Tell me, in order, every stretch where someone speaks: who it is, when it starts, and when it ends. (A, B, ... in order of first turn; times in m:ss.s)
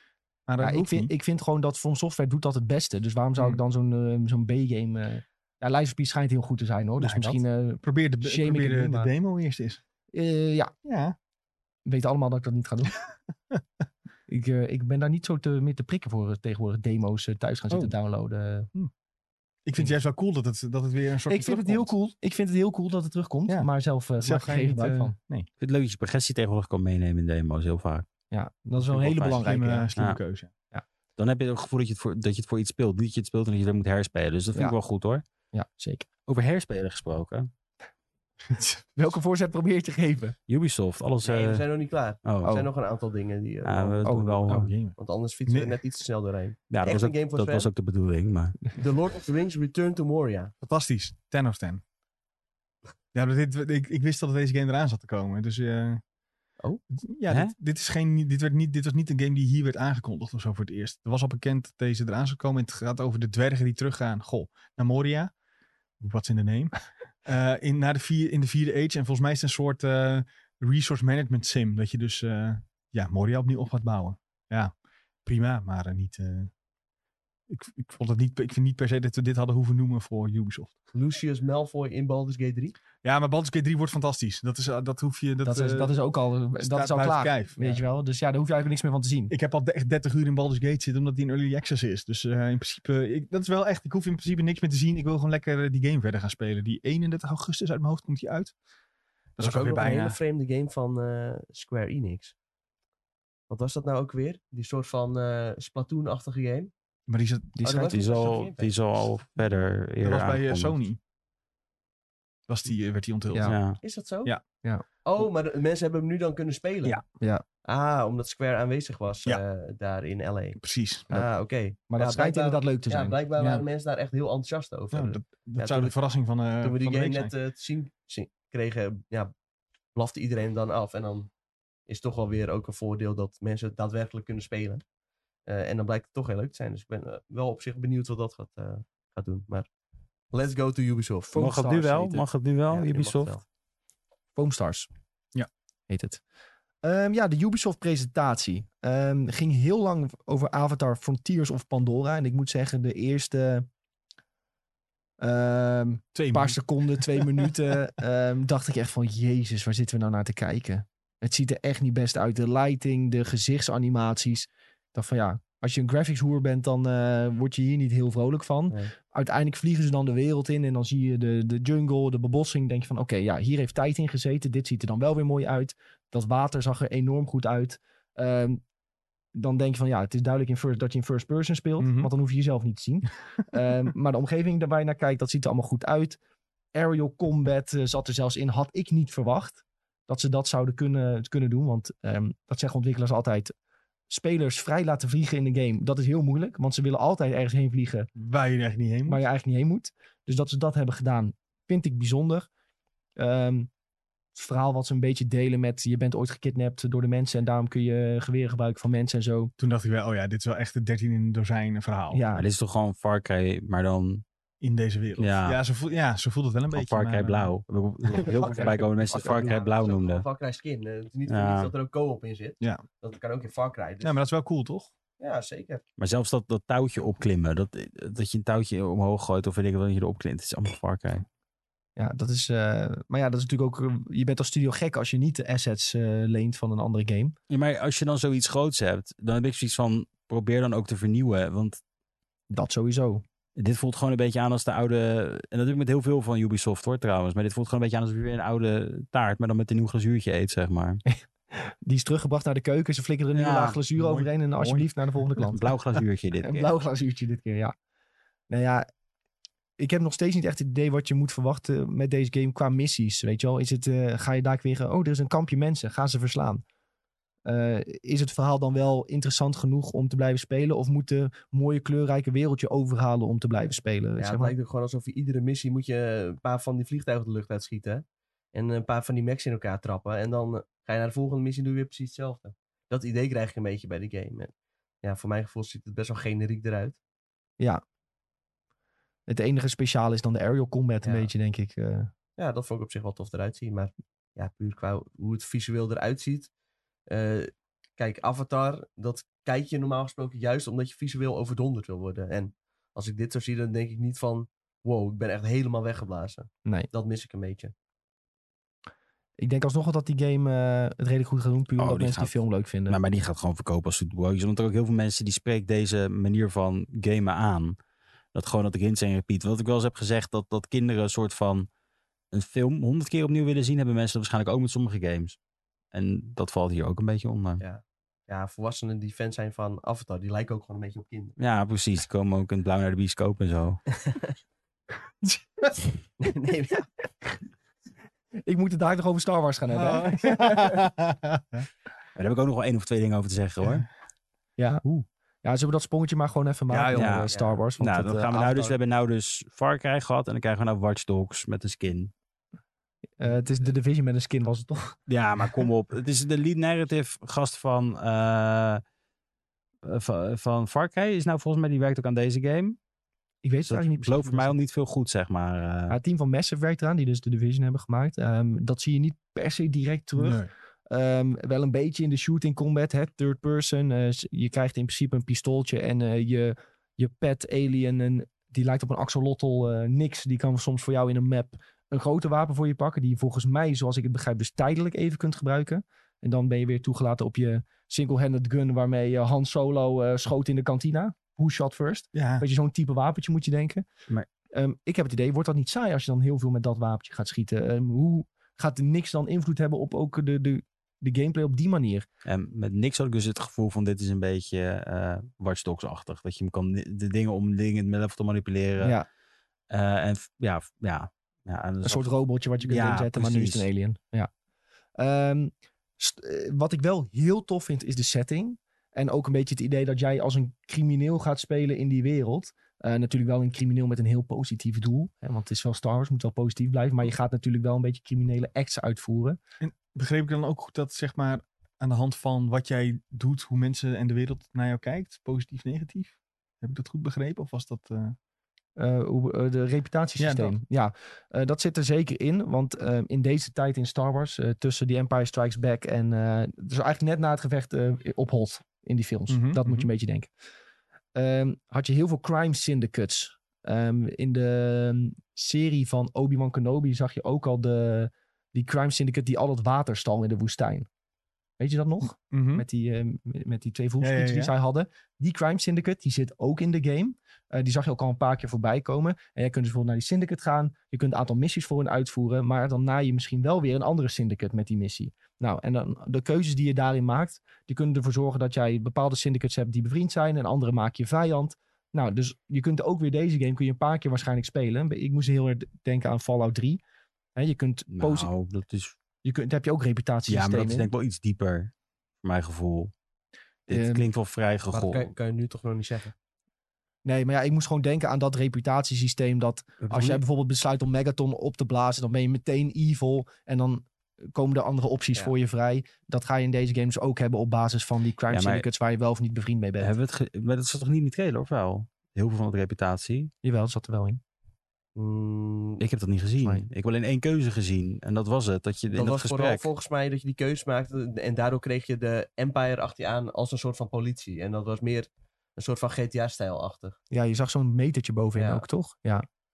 0:00.5-0:01.1 A
0:00.6-0:09.1 B
0:07.0-0:09.8 A
0:10.1-0:10.7 B
0:10.8-0:11.2 A
0:11.8-0:13.0 B
0:14.3-0:18.7 B
0:19.6-0:21.9 A
0:21.3-0:25.2 B
0:24.2-0:25.5 A
0:25.6-0:28.1 C
0:28.3-0:29.9 B
0:28.9-0:29.4 C
0:29.3-0:30.5 A
0:31.2-0:35.2 C
0:35.5-0:36.1 B
0:36.3-0:37.5 C
0:38.5-0:38.8 A
0:39.0-0:40.4 B
0:40.5-0:41.7 C
0:41.2-0:44.3 D
0:42.2-0:42.6 C
0:43.6-0:44.7 C
0:44.0-0:44.7 B
0:44.5-0:45.8 A
0:45.0-0:47.7 D
0:46.7-0:48.7 C
0:48.7-0:50.5 D
0:50.6-0:51.8 A
0:53.1-0:56.0 A
0:56.9-1:05.3 A
1:06.0-1:14.7 A
1:15.2-1:16.5 A
1:17.5-1:20.8 A
1:20.9-1:22.8 D
1:23.0-1:25.9 A
1:25.4-1:29.3 B
1:26.6-1:27.8 A
1:29.3-1:38.5 A
1:39.4-1:40.2 A
1:39.4-1:42.3 D
1:43.5-1:46.7 D
1:47.1-1:47.5 A
1:47.6-1:48.0 B
1:47.6-1:48.8 D
1:47.8-1:50.8 C
1:50.0-1:51.0 A
1:52.5-1:54.4 A
1:53.3-1:53.6 B
1:53.4-1:53.8 C
1:53.8-1:54.4 D
1:55.0-1:57.0 D
1:57.6-2:05.9 D
2:00.6-2:01.1 A
2:01.9-2:03.2 B
2:03.4-2:03.6 A
2:04.9-2:07.3 A
2:06.6-2:09.3 D
2:09.9-2:11.3 D
2:11.9-2:14.8 D
2:15.5-2:19.7 D
2:20.3-2:21.4 D
2:21.3-2:22.2 B
2:21.4-2:23.3 C
2:22.7-2:23.4 D
2:24.4-2:24.9 B
2:25.9-2:26.2 B
2:26.8-2:33.7 B
2:35.2-2:58.6 B
2:36.2-2:37.5 A
2:59.3-3:06.2 B
3:01.8-3:02.1 A
3:06.7-3:13.5 B
3:14.1-3:18.1 B
3:18.2-3:19.2 A
3:19.1-3:22.5 B
3:23.2-3:23.7 B
3:24.4-3:29.5 B
3:29.6-3:32.2 A
3:32.1-3:32.4 B
3:32.3-3:34.2 C
3:34.6-3:37.5 A
3:35.2-3:35.6 C
3:36.7-3:40.2 C
3:38.1-3:38.6 A
3:38.4-3:39.5 B
3:39.1-3:44.2 D
3:41.3-3:41.7 C
3:44.0-3:44.9 A
3:45.2-3:45.8 D
3:46.0-3:51.3 C
3:52.0-3:57.4 B
3:57.5-4:01.8 C
4:02.5-4:03.2 B
4:03.6-4:11.0 C
4:11.1-4:15.7 B
4:13.3-4:13.8 C
4:14.0-4:14.9 A
4:15.5-4:16.7 C
4:16.4-4:17.7 B
4:18.5-4:18.9 B
4:19.8-4:26.6 B
4:27.4-4:34.5 B
4:34.2-4:44.5 D
4:45.0-4:47.0 D
4:49.3-4:52.1 B
4:51.0-4:51.3 D
4:52.4-4:56.5 D
4:57.1-5:07.7 D
5:09.4-5:13.0 B
5:11.8-5:17.8 C
5:18.3-5:21.7 C
5:22.3-5:25.4 C
5:25.9-5:27.6 C
5:27.6-5:31.4 D
5:31.4-5:33.8 C
5:36.2-5:36.9 D
5:38.4-5:40.8 B
5:39.7-5:41.7 A
5:42.2-5:43.9 C
5:44.6-5:44.8 B
5:45.4-5:48.8 B
5:46.7-5:47.3 A
5:47.0-5:52.1 C
5:47.3-5:47.6 D
5:53.2-5:55.0 B
5:55.1-5:58.8 C
5:59.8-6:02.8 C
6:03.4-6:04.6 B
6:03.6-6:06.0 C
6:05.9-6:33.8 B
6:10.2-6:10.5 A
6:32.1-6:32.4 A
6:34.5-6:42.1 B
6:42.2-6:49.0 C
6:48.8-6:49.1 B
6:49.7-6:53.7 C
6:51.8-6:54.3 B
6:55.0-7:09.4 B
7:09.6-7:18.2 A
7:18.8-7:30.3 B
7:20.2-7:20.6 A
7:29.3-7:29.9 A
7:31.2-7:40.9 B
7:41.6-8:06.8 B
7:42.3-7:42.6 A
7:44.0-7:44.5 A
8:07.4-8:08.3 B
8:07.9-8:09.0 C
8:09.2-8:10.9 B
8:10.3-8:12.9 C
8:13.7-8:15.1 C
8:13.7-8:14.0 B
8:14.7-8:16.1 D
8:17.0-8:30.0 B
8:19.8-8:20.2 C
8:28.3-8:28.6 C
8:29.8-8:33.3 C
8:33.4-8:34.2 B
8:35.0-8:35.8 D
8:35.8-8:39.7 C
8:38.9-8:47.0 D
8:47.1-8:49.3 B
8:48.4-8:48.6 D